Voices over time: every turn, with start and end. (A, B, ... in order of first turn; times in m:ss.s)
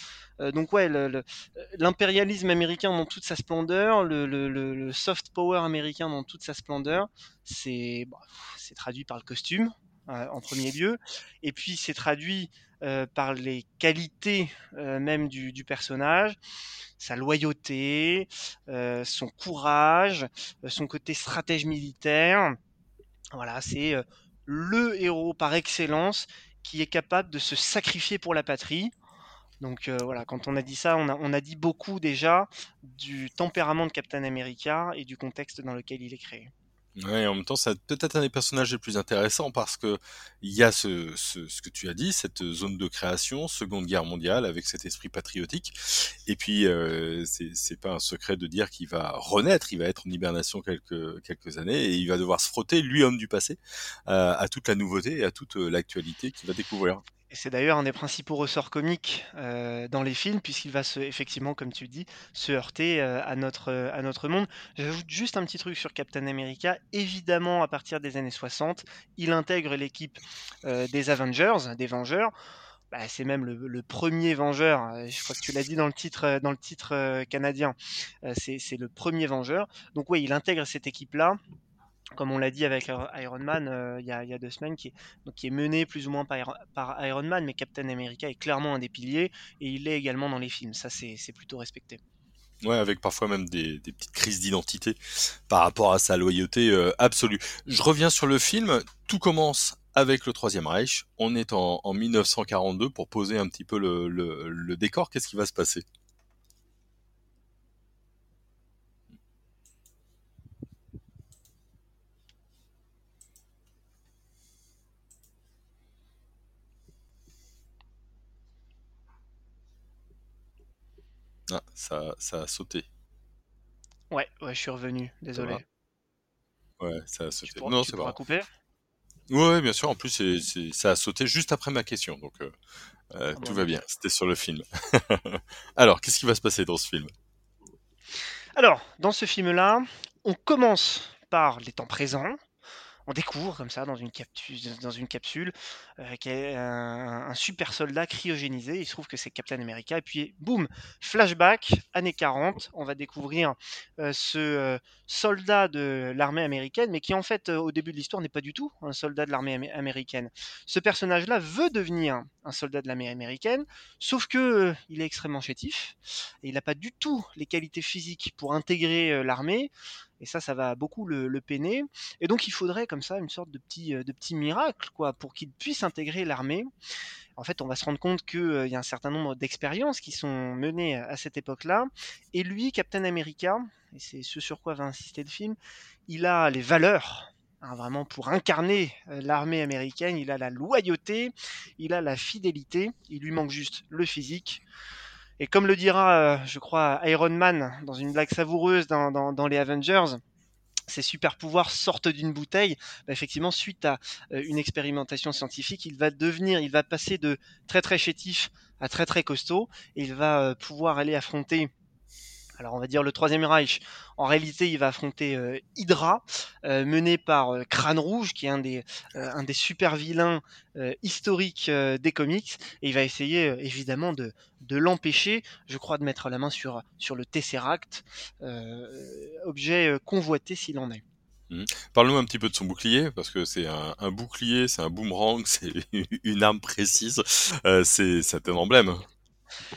0:00.4-0:16.4 A
0:17.0-0:22.6 A
0:23.3-0:28.9 A
0:29.6-0:36.5 A
0:37.0-0:57.0 B
0:57.3-1:12.3 A
1:12.9-1:21.4 A
1:22.2-1:32.0 A
1:32.6-1:45.8 B
2:01.5-2:02.9 B
2:04.1-2:05.6 A
2:06.8-2:08.2 B
2:07.4-2:08.5 A
2:09.3-2:12.6 B
2:13.1-2:17.1 B
2:13.4-2:13.8 A
2:18.6-2:22.4 A
2:23.1-2:56.7 A
2:57.4-3:05.6 A
3:06.1-3:14.6 A
3:15.4-3:20.2 A
3:20.9-3:31.7 A
3:32.6-3:51.0 A
3:51.5-3:59.0 B